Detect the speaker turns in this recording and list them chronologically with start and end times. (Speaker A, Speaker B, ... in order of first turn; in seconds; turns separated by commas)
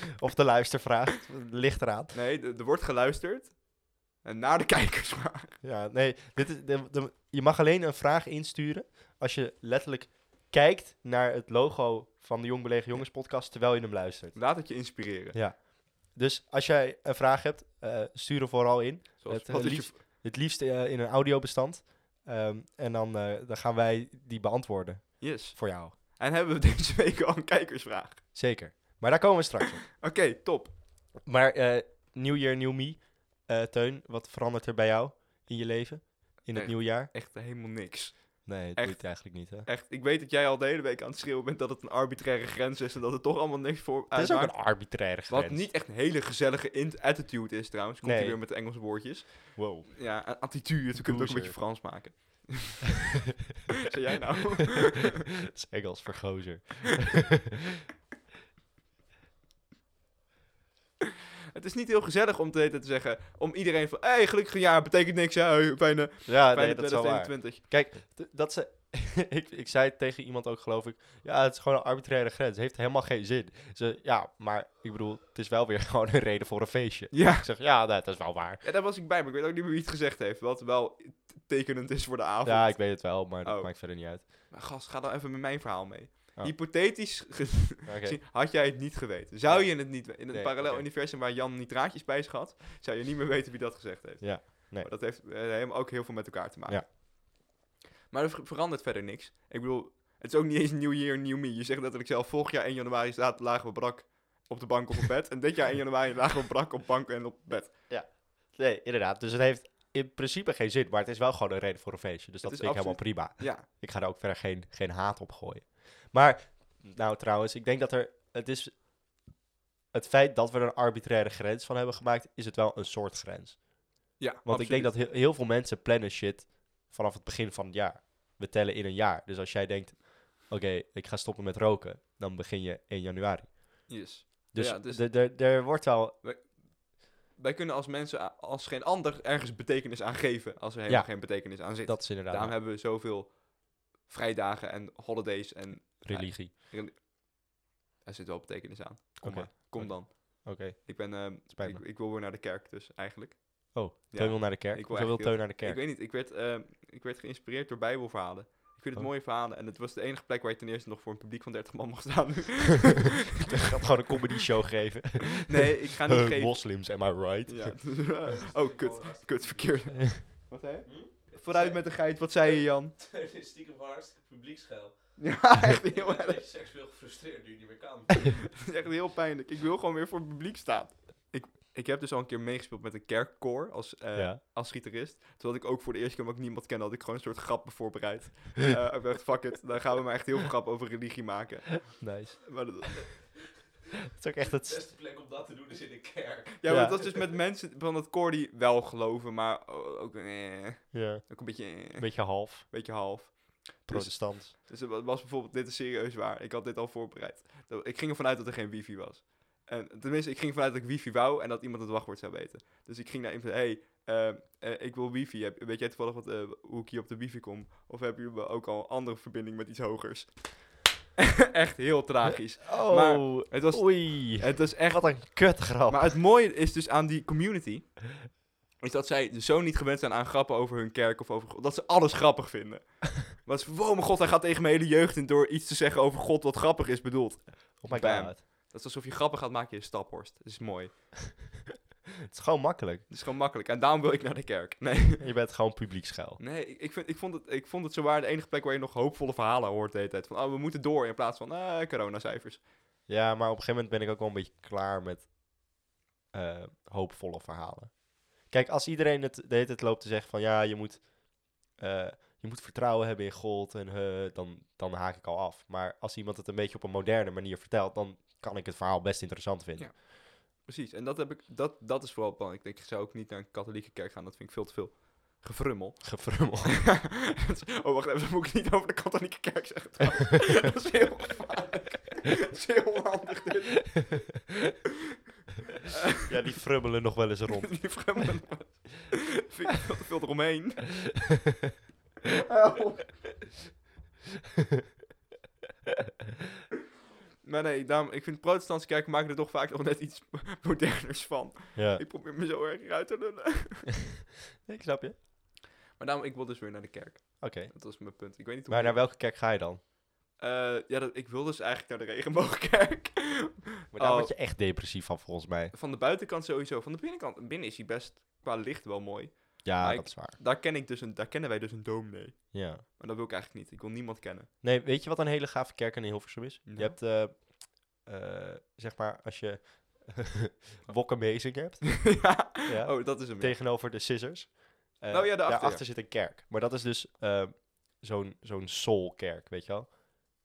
Speaker A: 0.2-2.1, Speaker B: 2.1-5.6, Speaker A: 5.6-25.9, Speaker B: 14.3-15.4, Speaker B: 19.2-20.0, Speaker B: 25.2-28.2, Speaker A: 28.3-29.9, Speaker B: 30.0-30.7, Speaker A: 31.2-37.1, Speaker B: 36.5-53.2, Speaker A: 38.4-39.7, Speaker A: 44.1-45.7, Speaker A: 48.0-48.4, Speaker A: 49.5-51.8, Speaker B: 53.9-55.3, Speaker A: 55.5-57.3, Speaker B: 61.5-67.6, Speaker A: 66.2-78.6, Speaker B: 77.1-77.5, Speaker B: 78.6-97.0, Speaker A: 82.4-84.2, Speaker A: 87.8-88.2, Speaker A: 89.5-90.9, Speaker A: 94.2-94.9, Speaker B: 98.1-107.8, Speaker A: 107.9-119.3, Speaker B: 112.4-113.7, Speaker A: 119.9-136.2, Speaker B: 124.2-124.9, Speaker B: 133.9-135.7, Speaker B: 136.2-163.7, Speaker A: 140.9-142.6, Speaker A: 146.0-146.5, Speaker A: 149.2-151.8, Speaker A: 153.7-155.8, Speaker A: 163.5-168.0, Speaker B: 165.5-173.0, Speaker C: 168.3-178.6, Speaker B: 175.2-176.4, Speaker B: 178.6-193.3, Speaker A: 184.1-184.4, Speaker A: 192.0-192.4, Speaker C: 193.1-193.4, Speaker A: 194.2-194.8, Speaker C: 194.5-197.2, Speaker B: 196.6-241.4, Speaker A: 196.7-197.0, Speaker A: 200.9-202.7, Speaker A: 203.8-204.5, Speaker A: 222.7-226.2, Speaker A: 237.8-238.4, Speaker A: 242.3-243.1, Speaker B: 243.1-245.2, Speaker A: 245.2-246.4, Speaker B: 246.4-252.6, Speaker A: 253.1-255.8, Speaker A: 256.3-270.0, Speaker B: 269.8-284.3, Speaker A: 276.0-276.9, Speaker A: 286.2-288.2, Speaker B: 287.6-291.2, Speaker B: 292.5-293.2, Speaker B: 297.4-303.9, Speaker A: 301.7-302.0, Speaker A: 304.6-305.2, Speaker B: 305.9-309.1, Speaker A: 307.4-309.8, Speaker B: 310.4-314.3, Speaker A: 313.9-315.7, Speaker B: 315.7-324.5, Speaker A: 319.6-320.4, Speaker A: 322.5-322.8, Speaker A: 324.6-339.9, Speaker B: 326.6-327.0, Speaker B: 330.9-333.5, Speaker B: 335.1-335.8